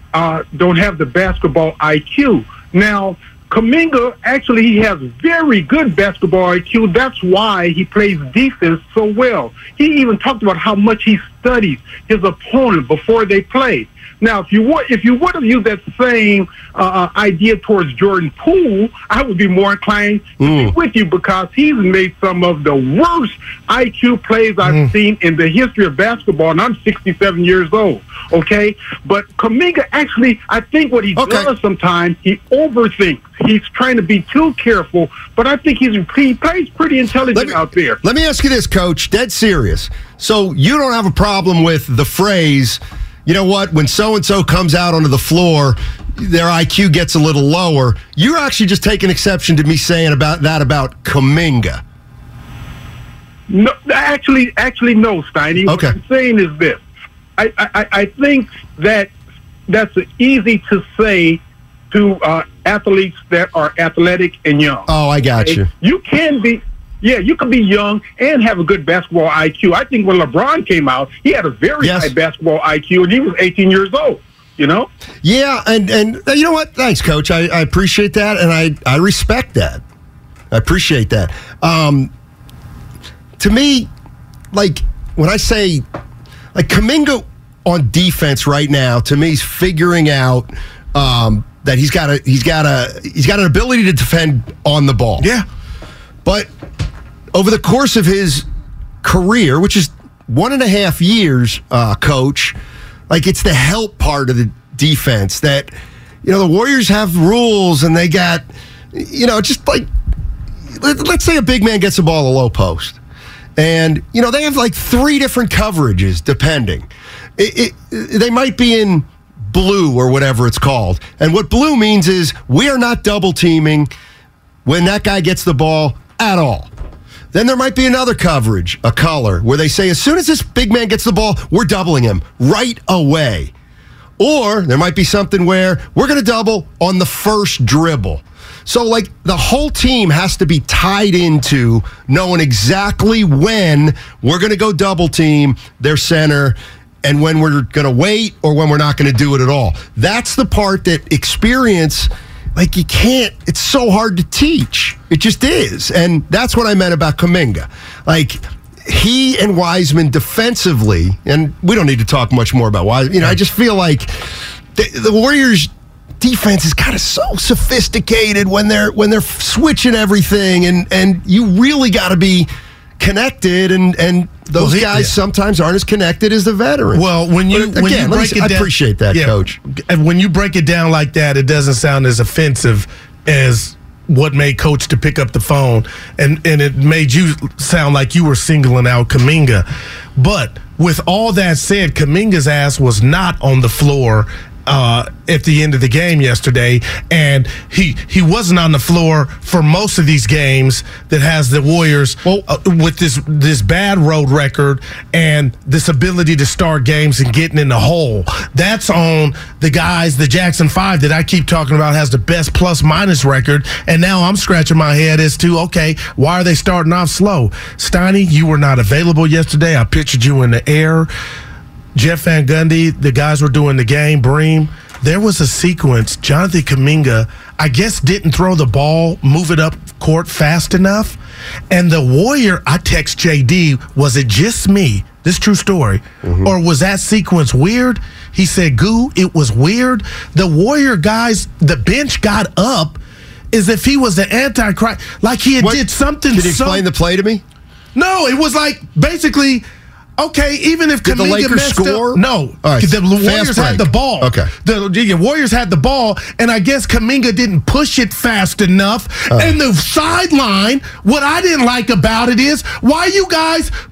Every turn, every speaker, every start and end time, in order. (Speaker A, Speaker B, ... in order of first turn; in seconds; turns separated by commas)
Speaker A: 0.1-38.0, Speaker B: 20.4-20.7, Speaker B: 31.2-31.5, Speaker B: 37.3-51.8, Speaker A: 53.5-56.8, Speaker B: 55.6-56.0, Speaker A: 57.4-59.1, Speaker A: 59.7-64.9, Speaker B: 64.9-65.7, Speaker A: 65.4-74.9, Speaker B: 71.8-72.1, Speaker B: 75.2-79.8, Speaker B: 80.5-82.1, Speaker B: 83.4-83.9, Speaker B: 84.5-85.8, Speaker B: 86.5-95.3, Speaker B: 97.3-98.5, Speaker B: 99.0-102.6, Speaker B: 103.1-105.7, Speaker B: 106.2-109.9, Speaker B: 110.7-113.0, Speaker B: 113.6-123.9, Speaker B: 124.7-126.7, Speaker B: 127.3-133.5, Speaker B: 134.2-179.6, Speaker C: 174.6-175.1, Speaker C: 176.9-189.7, Speaker C: 190.2-221.1, Speaker C: 221.9-231.2, Speaker C: 231.7-243.0, Speaker B: 236.2-236.5, Speaker C: 243.5-246.8, Speaker B: 245.6-247.4, Speaker C: 247.9-249.7, Speaker C: 250.2-263.7, Speaker B: 251.0-254.5, Speaker B: 259.3-259.6